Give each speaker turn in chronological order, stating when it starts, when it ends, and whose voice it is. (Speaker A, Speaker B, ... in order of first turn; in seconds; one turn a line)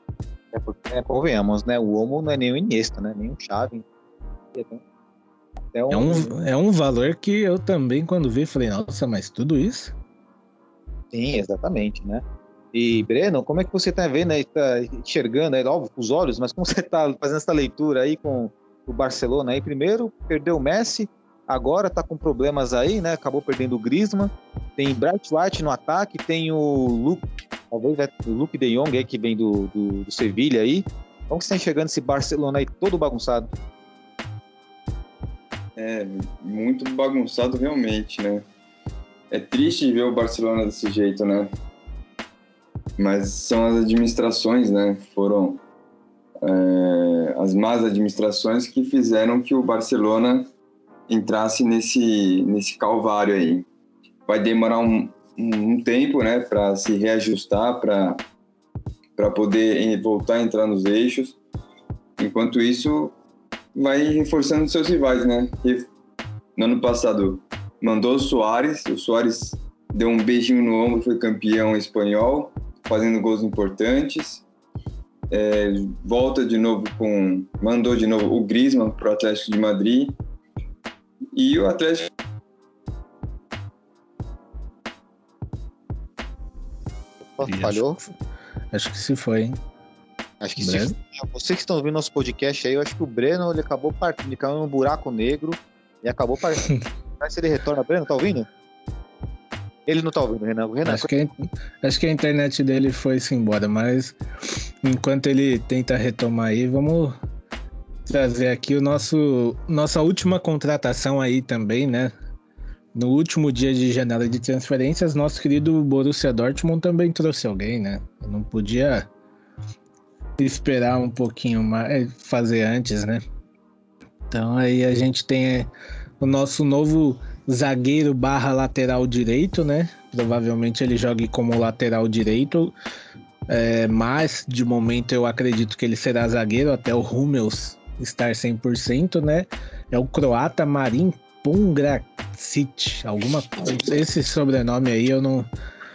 Speaker A: 0.5-3.9
Speaker A: 4.5-4.8
Speaker A: 5.7-6.3
Speaker B: 5.9-9.9
Speaker A: 11.1-33.5
Speaker C: 35.8-38.4
Speaker C: 39.3-41.5
Speaker C: 43.0-45.6
Speaker C: 46.4-50.5
Speaker C: 51.1-53.6
Speaker C: 54.3-58.2
Speaker C: 59.2-61.4
Speaker C: 62.2-63.1
Speaker C: 63.8-65.9
Speaker C: 66.6-74.4
Speaker C: 75.3-80.2
Speaker C: 81.3-82.1
Speaker A: 87.3-87.9
Speaker B: 87.4-88.1
Speaker B: 88.7-89.6
Speaker A: 90.4-98.5
Speaker B: 90.6-90.9
Speaker A: 99.9-101.1
Speaker B: 100.8-104.2
Speaker B: 104.8-107.2
Speaker B: 108.1-112.1
Speaker B: 112.9-119.1
Speaker B: 120.4-123.2
Speaker B: 124.3-125.7
Speaker B: 126.2-132.7
Speaker B: 133.5-145.5